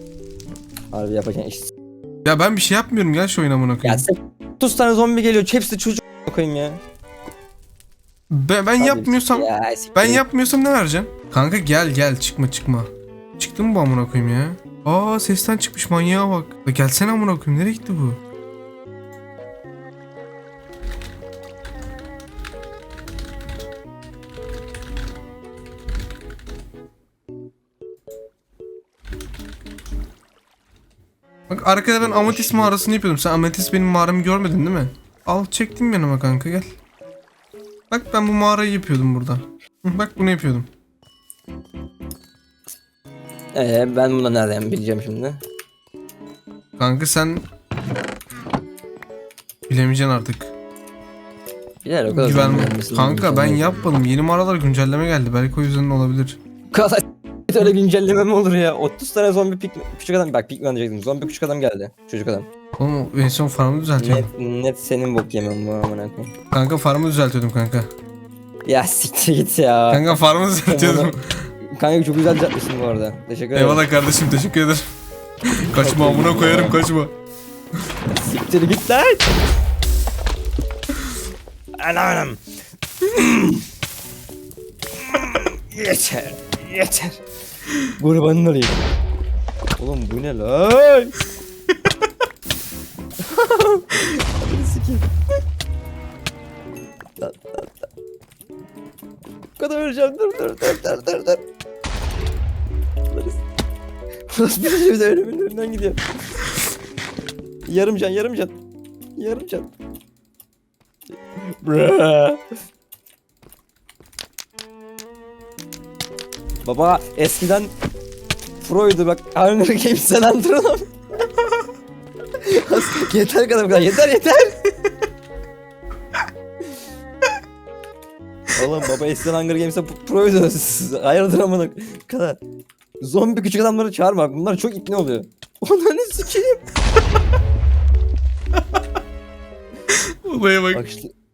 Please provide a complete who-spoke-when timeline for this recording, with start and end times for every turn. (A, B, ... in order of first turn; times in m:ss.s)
0:00.9-0:01.7 A
0:02.2-0:04.1 B
0:03.8-0:06.8 A
0:08.3-0:18.2 B
0:08.8-0:10.2 A
0:31.5-0:36.7 B
0:32.0-0:32.7 A
0:37.9-0:40.7 B
0:43.5-0:45.4 A
0:46.8-0:47.4 B
0:49.7-0:50.5 B
0:51.8-0:53.9 A
0:52.1-0:56.4 B
0:56.7-1:02.5 A
1:02.8-1:04.3 B
1:04.0-1:06.3 A
1:06.5-1:07.9 B
1:08.6-1:10.1 A
1:09.9-1:11.5 B
1:10.6-1:11.2 A
1:11.7-1:13.8 A
1:13.5-1:14.8 B
1:15.4-1:17.1 B
1:15.6-1:16.8 A
1:18.1-1:19.3 A
1:21.8-1:22.4 A
1:23.0-1:23.6 A
1:24.9-1:27.2 A
1:27.8-1:28.8 A
1:29.8-1:31.2 A
1:33.2-1:35.0 A
1:37.2-1:37.9 A
1:39.6-1:41.4 A
1:43.1-1:43.4 A
1:44.3-1:46.0 A
1:47.7-1:48.6 A
1:49.2-1:49.7 A
1:51.4-1:52.4 A
1:56.6-1:57.7 A
1:58.6-2:00.9 A
2:02.4-2:04.6 A
2:08.5-2:12.4 A
2:13.0-2:16.6 A
2:20.1-2:20.8 B
2:20.7-2:21.1 A